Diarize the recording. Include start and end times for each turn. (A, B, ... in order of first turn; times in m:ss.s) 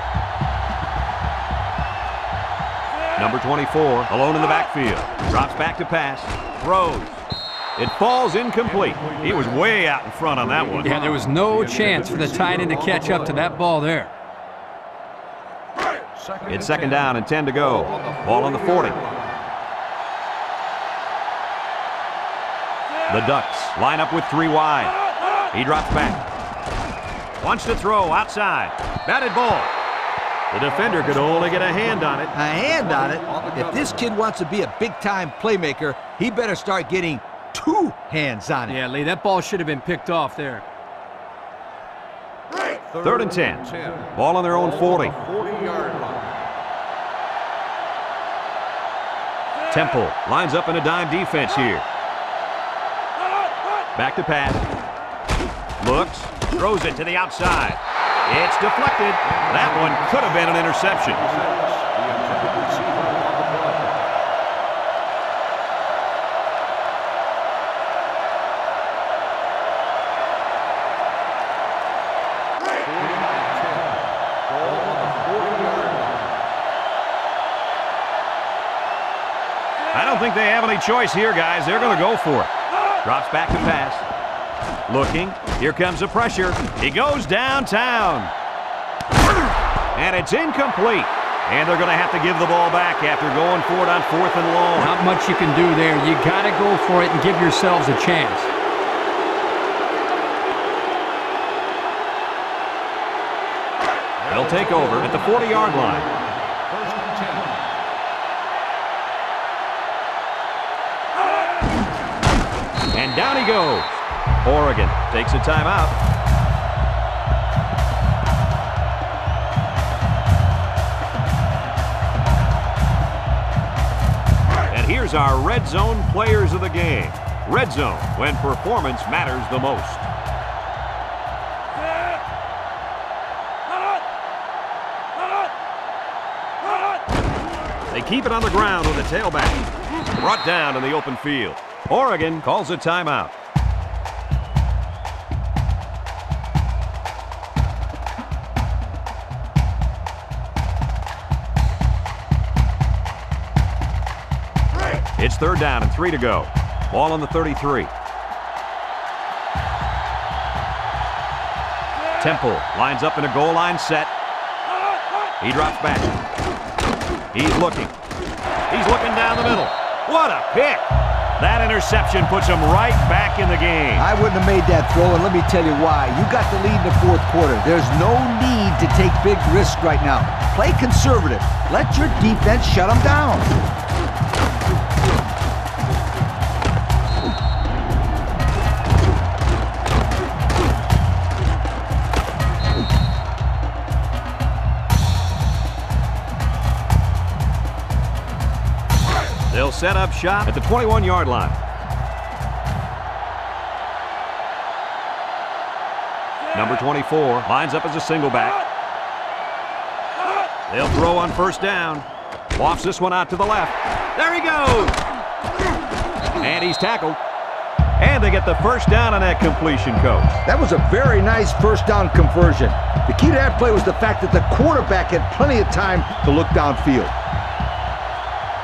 0:03.2-0:07.2 A
0:07.8-0:10.9 A
0:08.7-0:09.6 B
0:10.4-0:13.6 B
0:10.8-0:14.1 C
0:16.1-0:19.2 B
0:16.5-0:19.0 A
0:23.1-0:25.0 A
0:25.5-0:26.2 A
0:27.4-0:29.7 A
0:30.5-0:32.3 A
0:30.7-0:34.0 B
0:32.3-0:38.8 D
0:38.7-0:40.6 C
0:42.9-0:46.4 B
0:43.0-0:45.2 A
0:49.7-0:51.8 A
0:54.0-0:54.6 A
0:55.8-1:01.3 A
0:59.2-1:04.0 B
1:12.7-1:16.3 B
1:19.9-1:22.5 A
1:23.0-1:24.0 A
1:24.9-1:28.3 A
1:29.9-1:35.0 A
1:34.8-1:38.5 C
1:44.2-1:46.1 B
1:44.3-1:46.1 A
1:46.7-1:47.6 B
1:52.9-1:55.9 A
2:04.7-2:10.1 A
2:17.9-2:23.3 A
2:35.2-2:37.9 A
2:42.2-2:44.1 A
2:45.4-2:46.2 A
2:47.3-2:47.9 A
2:48.7-2:50.8 A
2:51.4-2:54.1 A
2:54.0-3:03.5 D
3:19.5-3:21.6 A
3:26.5-3:28.6 A
3:30.7-3:35.0 A
3:36.4-3:37.2 A
3:38.0-3:40.3 A
3:40.4-3:47.1 D